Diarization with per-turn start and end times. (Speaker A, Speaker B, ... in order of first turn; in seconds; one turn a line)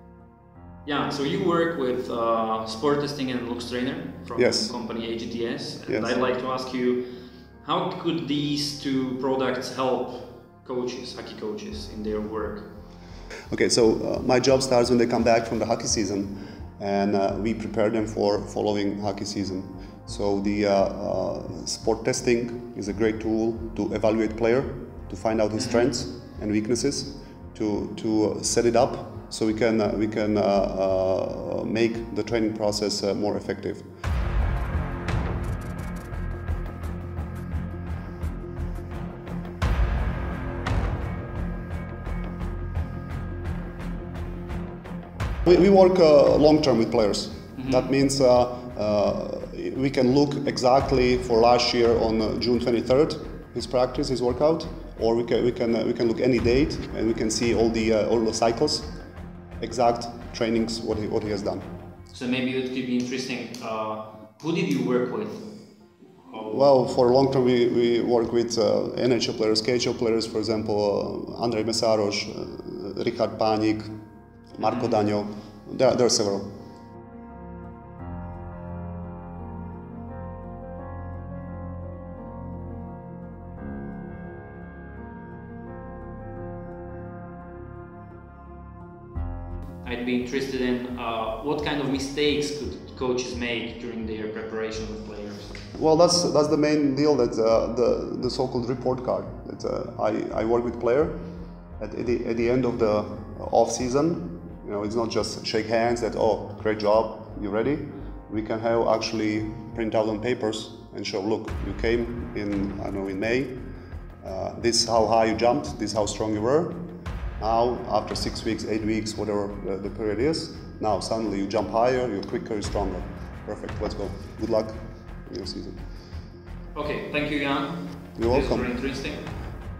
Speaker A: 0.8-7.1
Speaker B: 4.3-4.7
Speaker B: 5.9-6.2
Speaker A: 7.6-12.7
Speaker B: 13.5-33.9
Speaker A: 25.6-25.9
Speaker B: 45.5-59.0
Speaker A: 47.6-47.9
Speaker B: 59.6-61.6
Speaker A: 62.1-65.5
Speaker A: 66.3-66.7
Speaker B: 66.4-73.9
Speaker B: 74.5-76.5
Speaker A: 74.6-74.9
Speaker A: 89.8-95.6
Speaker B: 95.7-101.2
Speaker B: 101.8-113.6
Speaker B: 114.2-116.9
Speaker B: 117.4-125.8
Speaker A: 126.8-129.3
Speaker B: 128.2-128.7